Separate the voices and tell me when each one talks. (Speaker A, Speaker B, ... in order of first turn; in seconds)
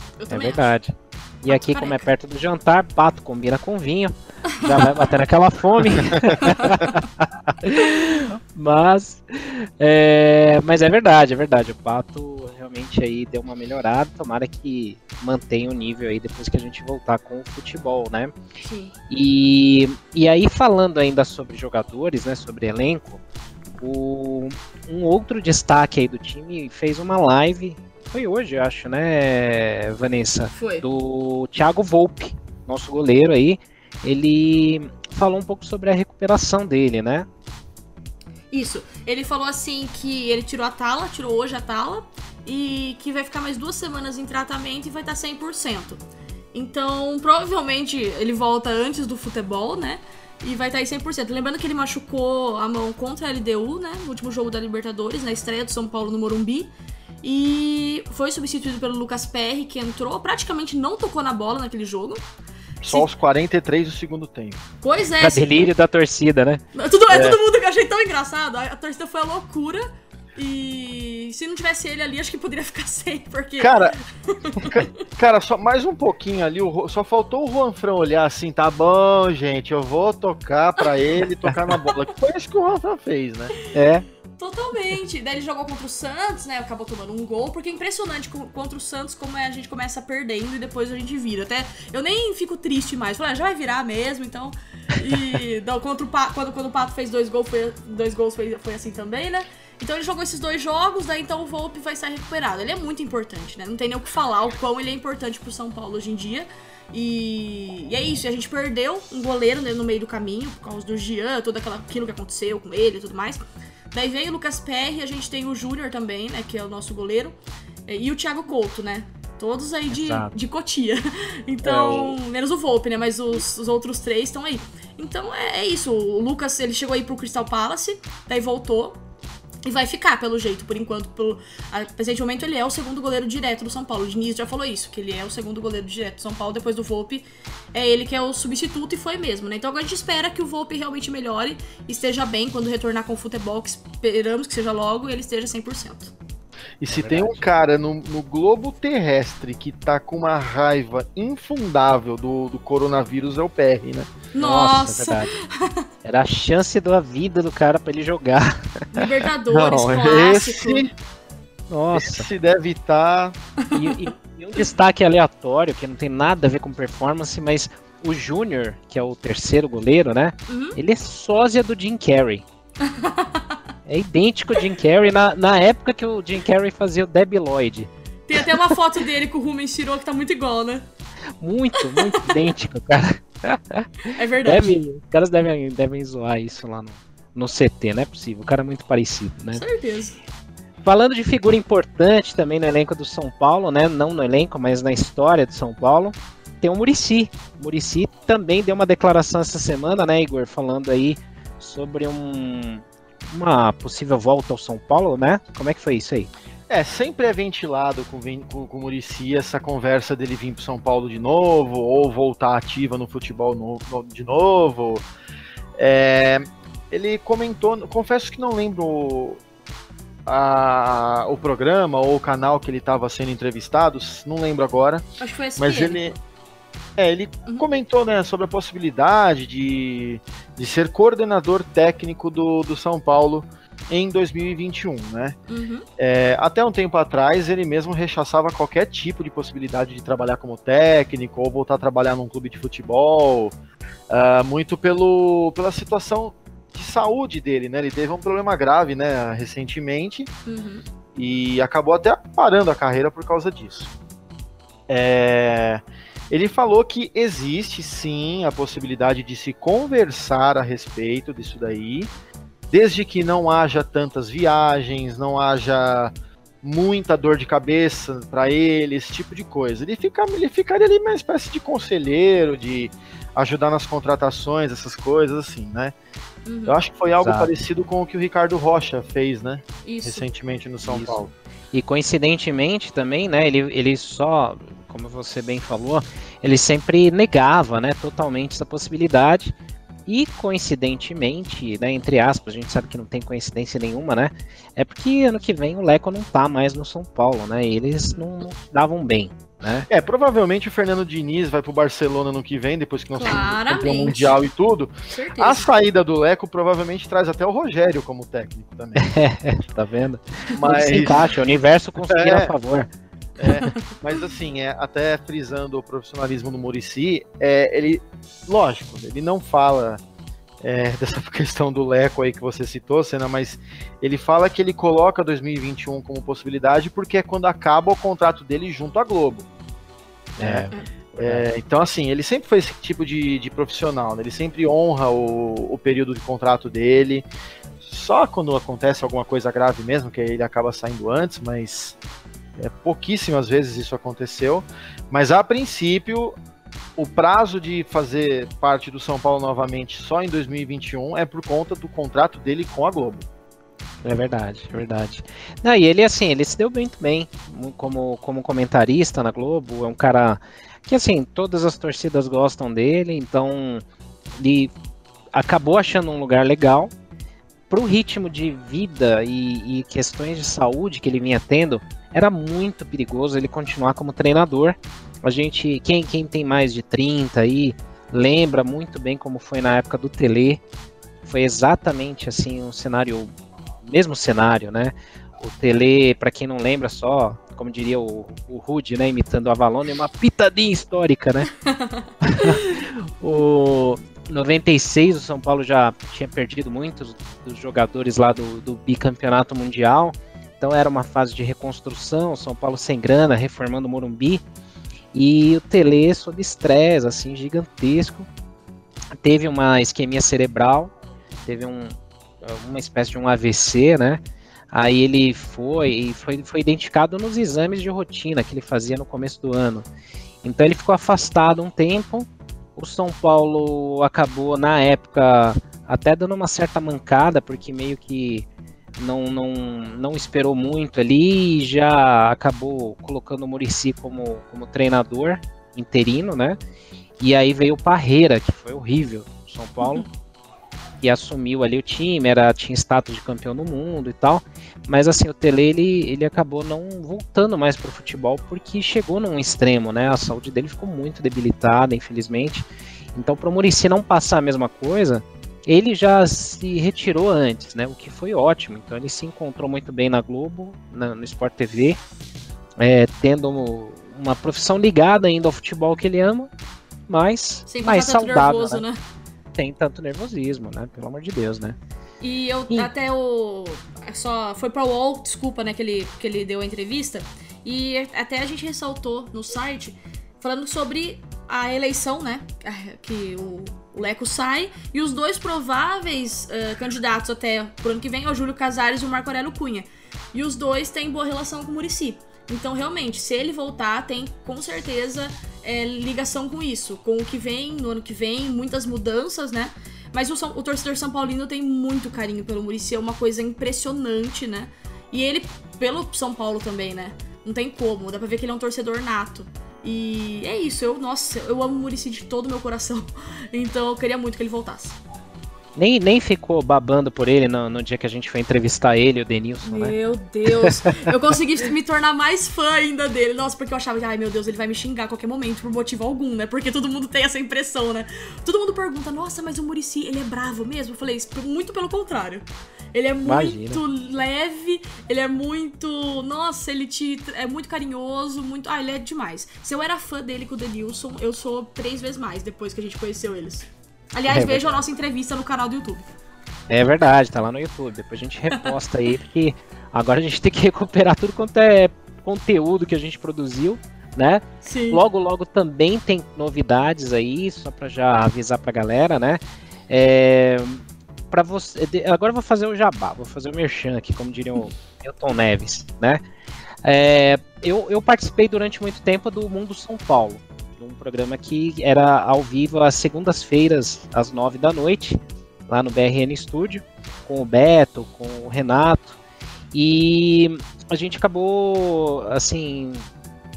Speaker A: 0.2-0.7, 1.5-2.0, 4.5-5.1, 18.6-18.9, 30.5-30.8, 38.5-46.0, 46.5-56.7, 57.2-62.2, 62.8-63.1, 64.8-65.5, 66.7-74.7, 84.4-117.3, 117.9-129.0, 129.6-146.1, 154.3-155.8, 158.9-160.9, 170.5-170.8, 172.8-173.4, 178.3-180.8, 181.8-182.4, 184.1-184.8, 189.5-190.2, 225.2-226.0, 235.5-235.8, 250.5-250.8, 276.4-276.8, 279.8-280.3, 303.1-304.3, 305.1-305.7, 439.8-440.1, 467.7-469.0, 472.2-515.0, 519.6-546.0, 554.6-555.0
Speaker B: 0.3-18.3, 19.1-23.2, 23.8-37.3, 65.2-66.6, 83.7-84.0, 119.9-120.3, 121.6-122.2, 146.9-147.4, 154.4-155.3, 156.0-159.0, 161.7-162.3, 163.7-172.4, 173.8-178.5, 181.4-189.6, 190.8-206.3, 277.2-277.5, 280.8-281.2, 281.7-289.5, 290.1-299.9, 309.0-312.9, 330.4-331.4, 354.0-363.8, 364.4-364.7, 365.3-366.9, 367.7-380.6, 381.2-383.3, 383.8-391.5, 392.2-404.4, 405.1-408.3, 409.2-410.9, 411.4-414.2, 414.7-419.9, 420.4-428.4, 429.0-436.6, 437.2-440.1, 441.0-462.0, 462.8-466.5, 467.1-468.8, 469.6-471.8, 515.8-519.9, 520.6-520.9, 533.2-533.8, 544.3-544.8, 546.7-566.2, 566.8-579.2, 579.7-583.0
Speaker C: 62.8-64.6, 67.1-67.4, 73.6-74.0, 74.6-83.5, 146.8-154.1, 159.5-160.9, 161.9-163.3, 206.7-215.1, 215.8-219.4, 220.2-225.0, 225.6-226.1, 227.0-235.3, 236.0-243.5, 244.1-250.3, 251.2-253.9, 254.9-262.1, 262.7-275.9, 276.6-281.3, 299.9-309.1, 310.5-311.2, 312.1-312.5, 313.4-320.0, 320.6-329.5, 330.4-330.7, 331.2-337.3, 337.8-342.0, 342.6-346.4, 347.0-353.2